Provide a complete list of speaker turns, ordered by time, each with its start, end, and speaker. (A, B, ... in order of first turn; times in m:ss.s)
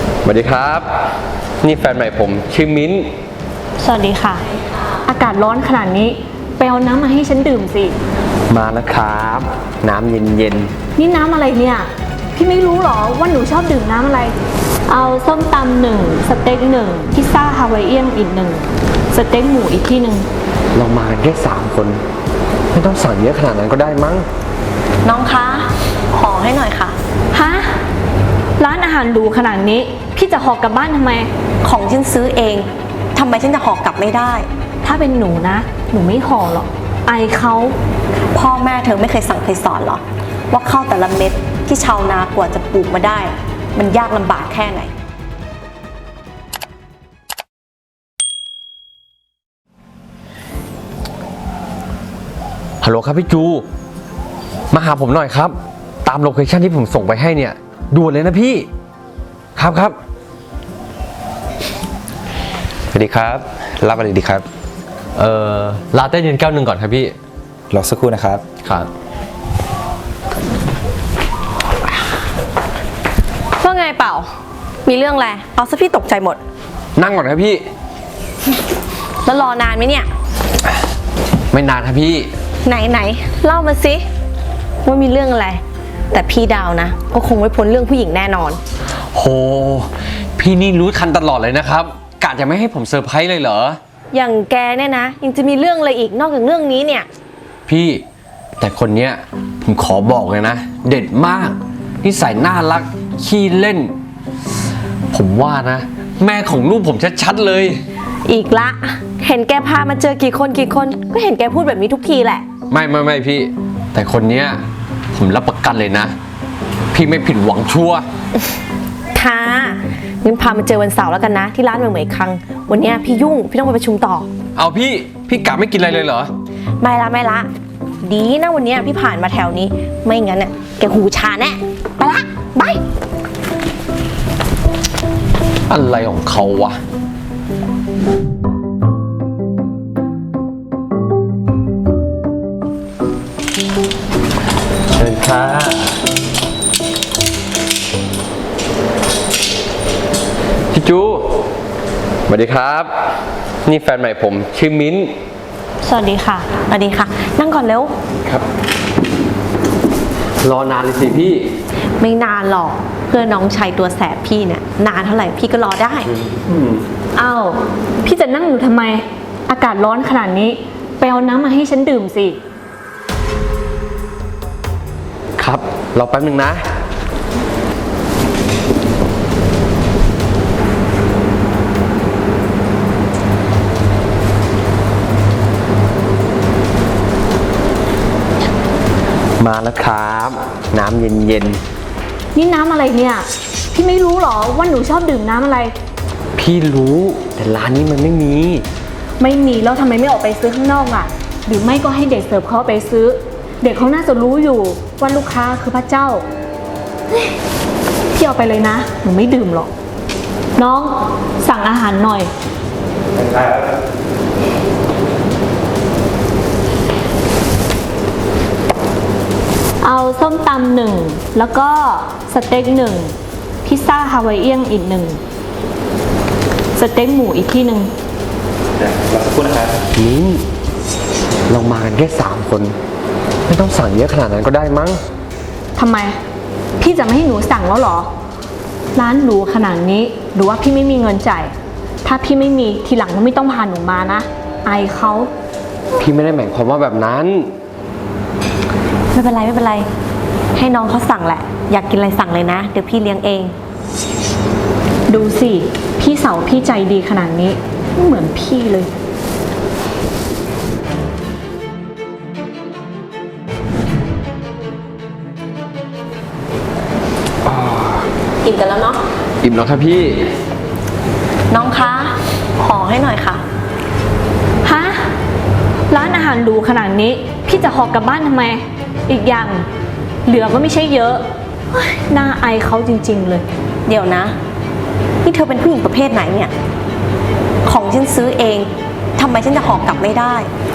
0:00.2-0:00.9 A
0:01.6-0:03.1 A
0:03.8-0:04.4 B
0:05.0-0:08.0 B
0:08.5-0:10.7 A
0:11.0-0:14.3 B
0:14.9-0:20.3 B
0:20.7-0:22.0 A
0:22.7-0:24.3 A
0:25.0-0:27.0 C
0:27.3-0:27.7 B
0:28.6-0:31.3 B
0:31.6-0:34.5 C
0:34.8-0:37.8 B
0:38.3-0:44.9 C
0:52.8-0:53.6 A
0:54.7-0:58.7 A
0:59.6-1:00.0 A
1:02.9-1:03.4 A
1:03.8-1:04.5 D
1:05.1-1:07.1 A
1:07.7-1:08.4 D
1:08.6-1:08.9 A
1:13.6-1:14.3 C
1:14.8-1:16.4 C
1:17.0-1:17.6 A
1:19.2-1:20.1 C
1:21.5-1:22.3 A
1:22.6-1:24.1 C
1:24.8-1:25.6 C
1:26.1-1:28.6 C
1:29.1-1:33.8 A
1:34.1-1:37.1 C
1:37.7-1:38.0 A
1:38.6-1:43.9 A
1:45.1-1:47.8 A
1:48.2-1:52.4 C
1:52.7-1:54.6 A
1:55.1-1:56.1 A
1:56.9-1:58.1 A
1:59.1-2:04.3 C
2:04.6-2:06.3 A
2:06.8-2:07.5 C
2:08.0-2:12.8 C
2:15.7-2:16.8 A
2:24.9-2:25.9 A
2:30.7-2:31.4 A
2:32.3-2:32.9 A
2:33.6-2:35.1 A
2:35.8-2:36.5 B
2:36.6-2:37.9 C
2:40.4-2:41.5 A
2:42.0-2:46.1 C
2:46.2-2:46.8 A
2:47.2-2:52.4 B
2:55.4-2:56.6 A
3:09.4-3:11.6 A
3:12.3-3:15.7 B
3:16.4-3:18.6 A
3:19.2-3:26.2 B
3:28.1-3:29.7 B
3:30.6-3:32.3 B
3:33.2-3:33.6 D
3:39.8-3:45.2 B
3:46.7-3:47.9 B
3:49.1-3:49.7 D
3:49.9-3:50.4 A
3:51.5-3:52.8 A
3:53.5-3:55.0 A
3:55.8-3:56.2 B
3:56.8-3:58.1 B
3:58.9-4:01.5 B
4:02.0-4:05.3 B
4:06.0-4:07.5 A
4:09.1-4:09.9 C
4:10.6-4:13.5 C
4:15.1-4:18.9 B
4:27.4-4:28.0 A
4:28.4-4:29.0 C
4:29.4-4:30.3 A
4:31.5-4:33.4 C
4:34.6-4:35.1 B
4:35.9-4:39.6 B
4:40.2-4:43.4 B
4:43.9-4:44.4 C
4:45.2-4:46.5 C
4:47.6-4:50.5 C